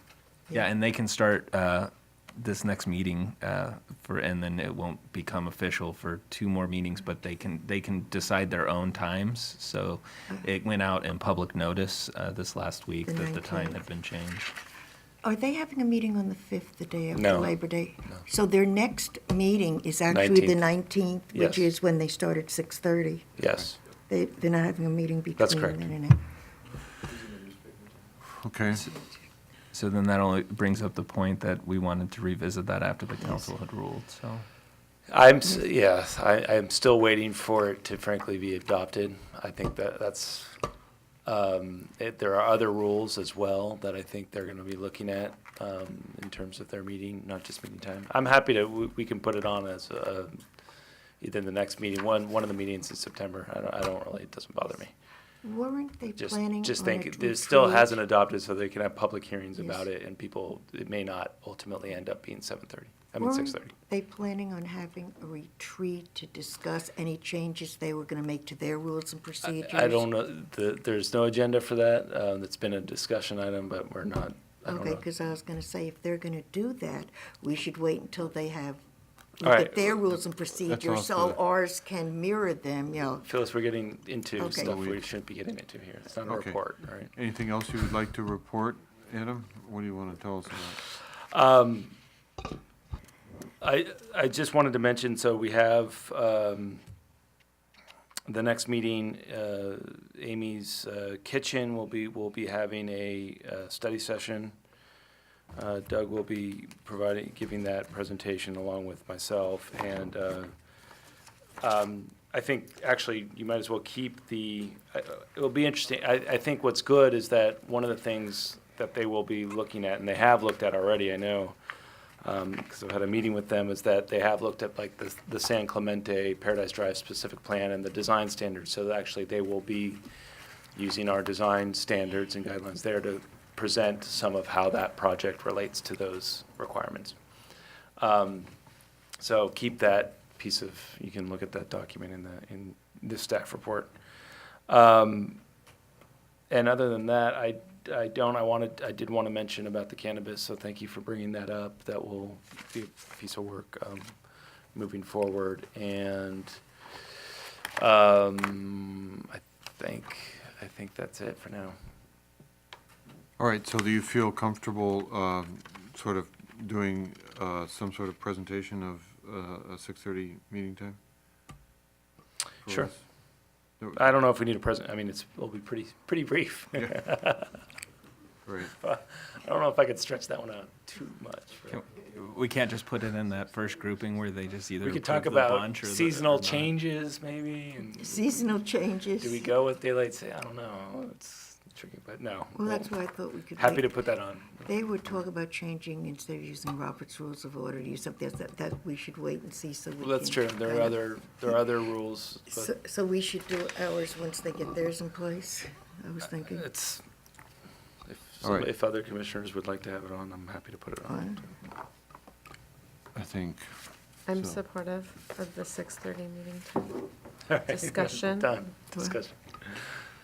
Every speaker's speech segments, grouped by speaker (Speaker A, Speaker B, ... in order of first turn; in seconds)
Speaker A: 0.5-14.5, 29.7-34.5, 181.7-186.7
Speaker B: 13.1-13.8, 15.2-23.4, 24.1-26.2, 33.2-33.5, 55.4-58.0, 59.6-59.9, 63.2-70.1, 74.7-78.8, 79.4-83.3, 84.4-84.8, 188.0-189.5, 192.6-194.1, 194.7-201.6, 202.5-206.7, 211.1-211.5
Speaker C: 17.1-17.6, 20.1-20.6, 21.3-21.7, 23.4-23.8, 25.4-25.9, 35.1-40.6, 41.2-50.4, 51.2-54.9, 56.2-63.7, 69.4-75.0, 79.4-80.0, 83.2-87.2, 91.3-92.0, 93.6-96.8, 98.3-104.5, 105.5-110.5, 111.6-121.6, 122.2-130.0, 130.8-137.2, 138.0-138.5, 139.2-143.9, 144.7-145.4, 146.5-154.2, 154.7-156.6, 157.8-161.8, 172.7-172.9, 173.9-177.6, 178.7-181.8, 184.8-188.6, 189.2-193.0, 193.5-194.7, 200.0-202.7, 206.5-207.0, 208.1-211.4, 217.5-220.0
Speaker D: 28.4-28.9, 80.7-81.4, 84.7-85.0, 86.3-90.8, 163.4-171.0, 172.7-173.0, 173.8-174.1, 178.4-178.7, 208.4-208.7, 213.2-214.6
Speaker E: 214.3-217.1, 217.7-218.5